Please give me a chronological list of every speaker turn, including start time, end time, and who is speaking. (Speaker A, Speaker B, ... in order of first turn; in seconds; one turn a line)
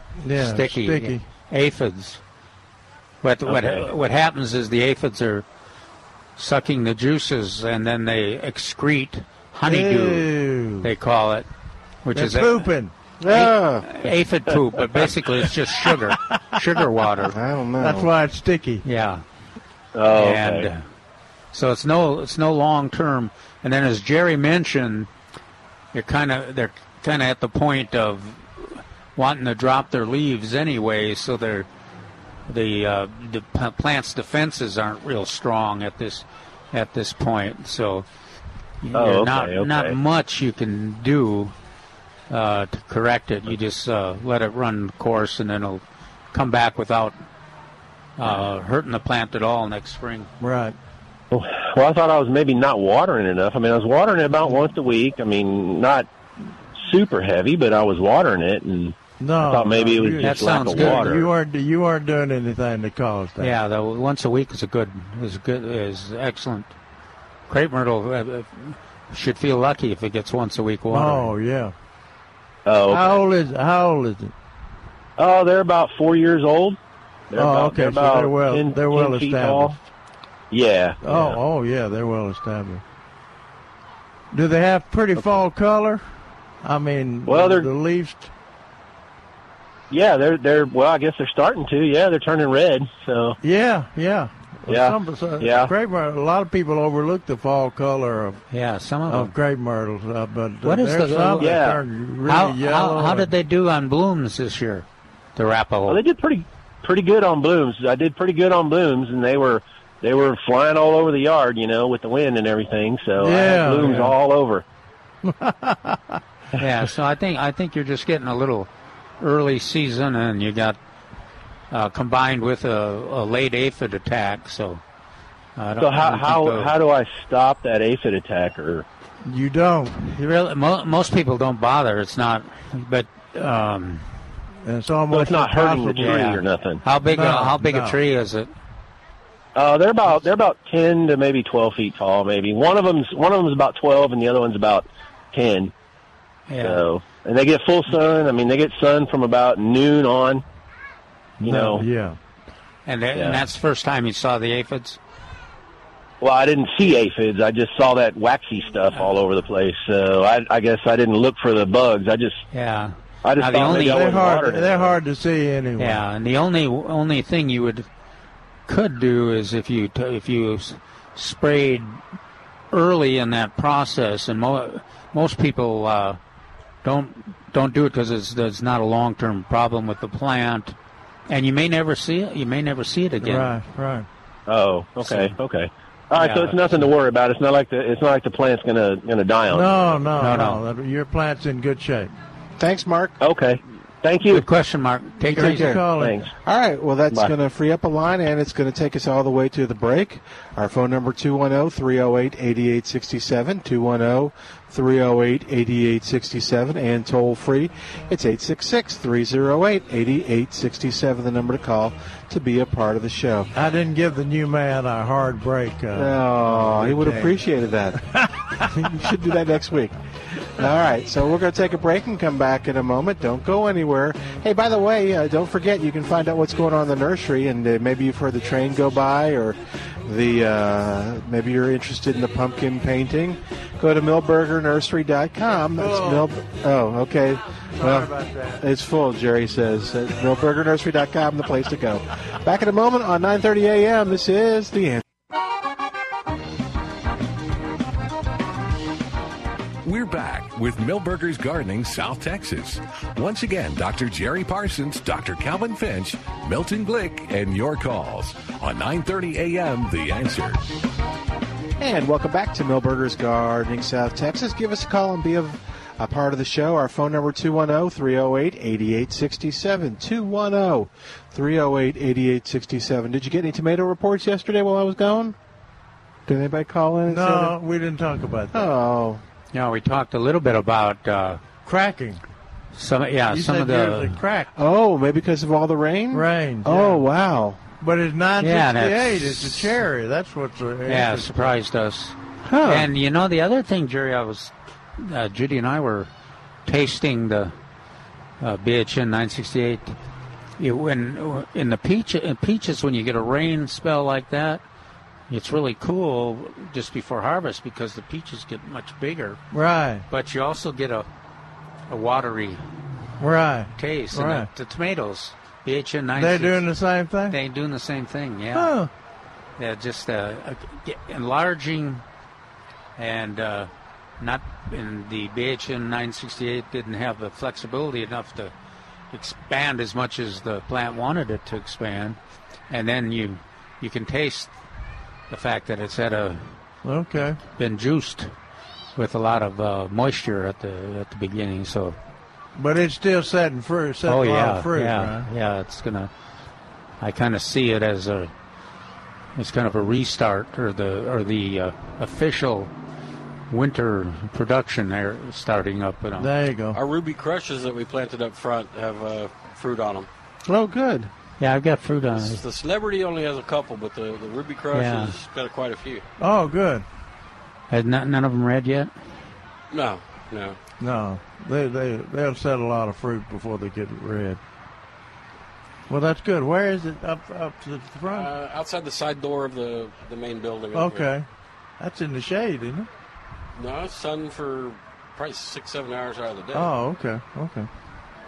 Speaker A: 0.2-1.2
Speaker B: 0.3-2.2
Speaker B: 3.2-5.5
Speaker C: 3.5-3.9
Speaker B: 6.4-10.3
Speaker A: 9.7-10.9
Speaker B: 10.8-11.5
Speaker B: 12.1-12.7
Speaker A: 12.1-12.9
Speaker D: 13.2-13.9
Speaker B: 13.3-17.4
Speaker A: 15.8-16.4
Speaker D: 17.3-18.1
Speaker A: 17.8-18.8
Speaker B: 18.8-19.2
Speaker C: 19.9-20.7
Speaker B: 20.1-20.8
Speaker B: 21.5-25.1
Speaker B: 25.9-31.7
Speaker B: 32.5-38.1
Speaker B: 38.8-41.5
Speaker C: 38.9-40.0
Speaker B: 42.3-47.2
Speaker B: 48.2-50.3
Speaker A: 50.4-50.8
Speaker C: 51.3-56.1
Speaker C: 56.8-61.3
Speaker A: 59.2-63.5
Speaker B: 60.2-61.2
Speaker B: 63.4-66.7
Speaker B: 67.5-71.3
Speaker A: 70.9-71.7
Speaker C: 72.7-73.2
Speaker A: 72.9-74.3
Speaker C: 75.2-76.8
Speaker C: 77.3-79.8
Speaker A: 77.4-79.8
Speaker C: 80.5-81.4
Speaker A: 81.0-82.8
Speaker A: 84.3-86.0
Speaker A: 86.6-88.3
Speaker C: 87.3-87.7
Speaker C: 89.9-93.4
Speaker A: 93.4-98.4
Speaker C: 94.7-95.7
Speaker B: 98.5-99.3
Speaker A: 99.1-103.3
Speaker B: 100.6-101.5
Speaker C: 101.4-101.8
Speaker B: 102.2-106.0
Speaker C: 105.9-114.6
Speaker A: 113.2-114.1
Speaker A: 115.2-116.2
Speaker B: 116.6-120.8
Speaker B: 121.7-124.8
Speaker B: 125.6-126.7
Speaker C: 125.8-128.8
Speaker A: 129.2-130.2
Speaker B: 130.2-134.1
Speaker A: 134.7-136.3
Speaker C: 135.1-136.8
Speaker B: 136.0-138.5
Speaker A: 137.1-138.0
Speaker C: 139.6-145.7
Speaker B: 146.5-146.8
Speaker C: 146.6-150.4
Speaker A: 151.4-152.2
Speaker C: 151.4-151.8
Speaker B: 152.9-155.0
Speaker C: 153.1-153.4
Speaker C: 156.2-162.4
Speaker B: 162.5-164.2
Speaker C: 163.2-165.0
Speaker A: 163.7-166.0
Speaker B: 165.8-167.9
Speaker B: 168.7-172.0
Speaker B: 172.7-176.2
Speaker B: 176.8-180.8
Speaker B: 181.3-183.5
Speaker A: 183.2-184.1
Speaker C: 184.5-190.1
Speaker B: 185.0-185.3
Speaker B: 186.2-186.9
Speaker A: 189.5-192.1
Speaker B: 190.2-190.6
Speaker D: 192.6-193.2
Speaker C: 193.2-194.5
Speaker B: 194.3-195.9
Speaker A: 195.3-196.2
Speaker D: 195.4-195.8
Speaker C: 195.9-196.3
Speaker D: 196.4-213.5
Speaker A: 213.6-217.4
Speaker D: 215.9-218.0
Speaker A: 218.1-218.7
Speaker D: 218.6-220.0
Speaker D: 220.6-245.0
Speaker A: 235.8-236.3
Speaker A: 237.8-238.6
Speaker E: 249.8-260.7
Speaker D: 261.8-275.4
Speaker D: 276.3-277.6
Speaker A: 277.1-278.7
Speaker D: 278.5-279.2
Speaker B: 279.5-281.4
Speaker A: 281.6-282.2
Speaker B: 282.7-284.2
Speaker A: 283.3-284.5
Speaker D: 284.6-287.6
Speaker A: 286.1-287.0
Speaker A: 287.8-291.6
Speaker B: 288.4-289.7
Speaker B: 290.9-296.1
Speaker D: 292.4-292.9
Speaker B: 296.7-297.5
Speaker B: 298.4-300.0
Speaker B: 300.6-304.6
Speaker B: 305.3-309.4
Speaker A: 309.5-310.1
Speaker B: 310.1-311.1
Speaker B: 311.9-312.6
Speaker A: 313.2-314.5
Speaker B: 313.8-316.6
Speaker A: 316.2-317.4
Speaker B: 317.3-318.7
Speaker A: 318.5-318.9
Speaker B: 319.6-322.0
Speaker B: 323.0-328.5
Speaker B: 329.1-334.5
Speaker B: 335.3-336.6
Speaker A: 336.8-337.4
Speaker B: 337.4-338.3
Speaker B: 338.9-342.0
Speaker A: 342.6-345.3
Speaker B: 344.1-346.1
Speaker B: 347.0-348.3
Speaker B: 349.4-352.7
Speaker B: 353.5-356.3
Speaker A: 356.2-356.8
Speaker F: 356.7-360.1
Speaker D: 360.4-361.1
Speaker B: 361.4-362.4
Speaker F: 362.1-366.1
Speaker B: 364.7-365.1
Speaker A: 366.2-366.9
Speaker B: 367.7-368.9
Speaker F: 369.7-370.6
Speaker A: 370.8-374.4
Speaker A: 375.9-378.3
Speaker F: 378.1-381.1
Speaker A: 380.7-381.3
Speaker A: 381.8-382.9
Speaker F: 383.6-386.7
Speaker A: 386.5-387.7